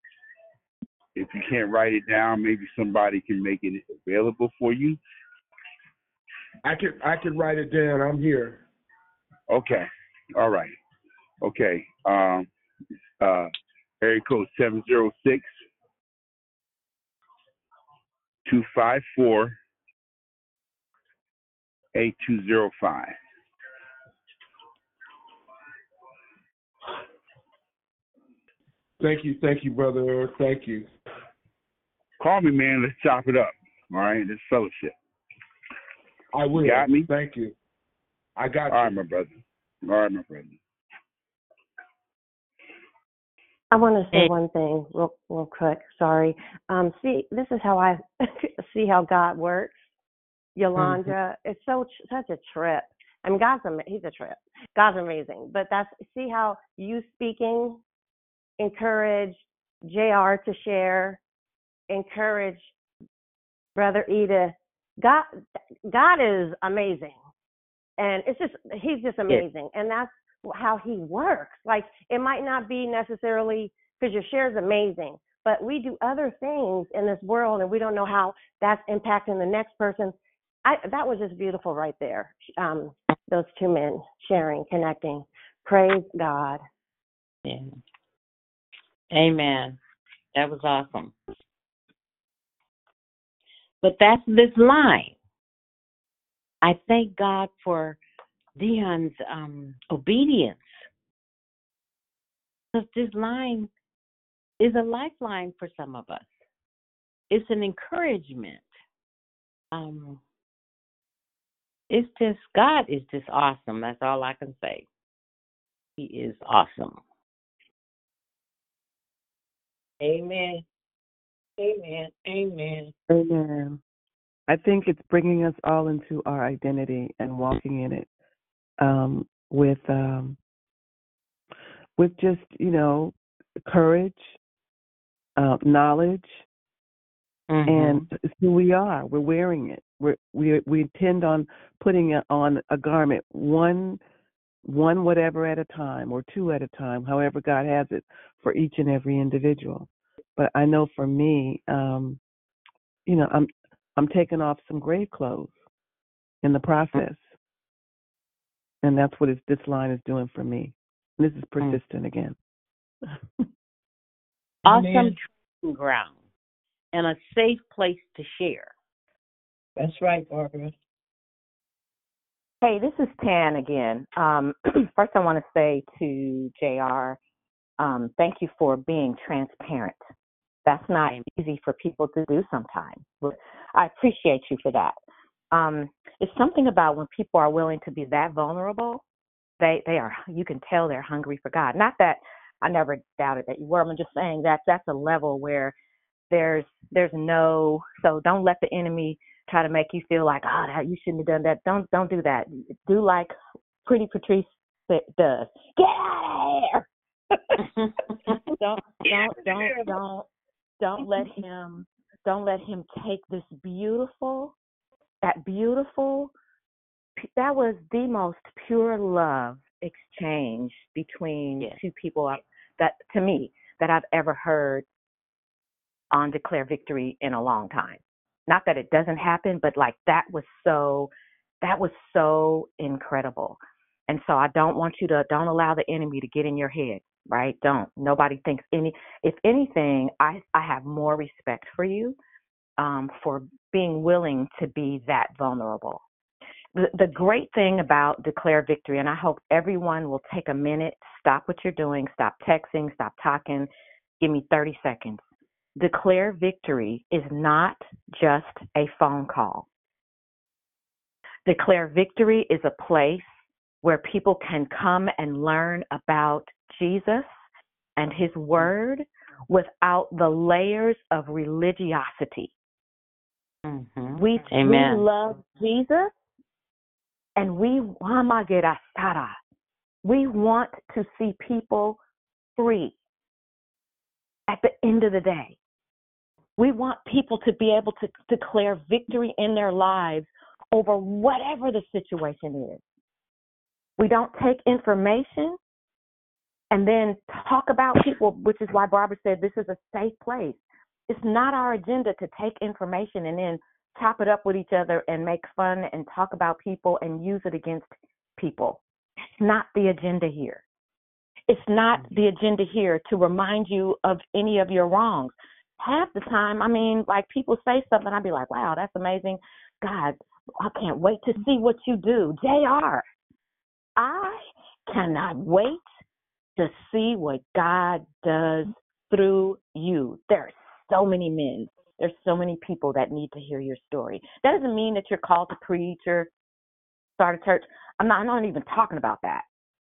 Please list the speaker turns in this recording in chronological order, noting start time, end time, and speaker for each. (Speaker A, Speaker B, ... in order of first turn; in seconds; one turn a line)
Speaker A: 1.1-5.0
Speaker B: 6.6-8.6
Speaker A: 9.5-10.8
Speaker A: 11.4-12.5
Speaker A: 13.2-15.5
Speaker A: 18.4-19.6
Speaker A: 21.9-23.1
Speaker B: 29.0-30.9
Speaker A: 32.2-34.9
Speaker B: 36.3-37.5
Speaker A: 36.6-37.1
Speaker B: 38.4-39.0
Speaker A: 38.7-40.6
Speaker C: 43.7-49.7
Speaker C: 50.5-57.8
Speaker C: 58.6-61.2
Speaker C: 61.9-62.7
Speaker C: 63.8-65.3
Speaker C: 65.9-67.2
Speaker C: 68.0-86.6
Speaker D: 87.5-87.8
Speaker D: 89.1-89.8
Speaker D: 90.3-91.1
Speaker D: 93.8-95.1
Speaker D: 96.6-98.0
Speaker D: 98.6-100.9
Speaker D: 102.7-103.7
Speaker D: 104.6-106.4
Speaker D: 107.3-108.7
Speaker D: 109.7-110.2
Speaker D: 111.9-114.8
Speaker D: 116.0-117.0
Speaker E: 120.0-120.6
Speaker E: 121.6-122.9
Speaker F: 123.1-123.8
Speaker F: 124.5-128.1
Speaker F: 128.8-130.4
Speaker F: 132.0-133.1
Speaker F: 133.7-134.4
Speaker F: 135.4-136.4
Speaker D: 137.5-138.1
Speaker F: 137.7-144.0
Speaker F: 144.6-152.2
Speaker F: 153.1-155.6
Speaker F: 156.4-157.3
Speaker F: 158.8-162.3
Speaker D: 164.7-166.2
Speaker E: 164.7-165.2
Speaker D: 166.9-168.7
Speaker E: 169.8-170.7
Speaker G: 172.6-177.2
Speaker G: 177.8-180.0
Speaker G: 180.7-185.0
Speaker G: 185.5-189.0
Speaker G: 189.6-195.7
Speaker G: 196.3-203.3
Speaker G: 203.8-206.8
Speaker G: 208.6-210.2
Speaker G: 210.8-214.5
Speaker G: 215.2-216.3
Speaker G: 217.2-224.8
Speaker G: 226.1-242.2
Speaker G: 242.8-246.0
Speaker G: 246.7-253.7
Speaker G: 254.2-255.2
Speaker G: 255.8-259.7
Speaker G: 261.4-267.4
Speaker G: 268.0-272.5
Speaker D: 273.6-275.0
Speaker G: 274.1-276.1
Speaker G: 277.4-279.4
Speaker G: 280.0-282.0
Speaker G: 282.6-282.9
Speaker G: 284.5-285.6
Speaker G: 286.6-292.8
Speaker G: 294.0-295.6
Speaker G: 296.7-308.8
Speaker G: 309.4-310.6
Speaker G: 311.5-323.0
Speaker G: 324.0-325.8
Speaker G: 326.6-336.3
Speaker G: 337.2-339.4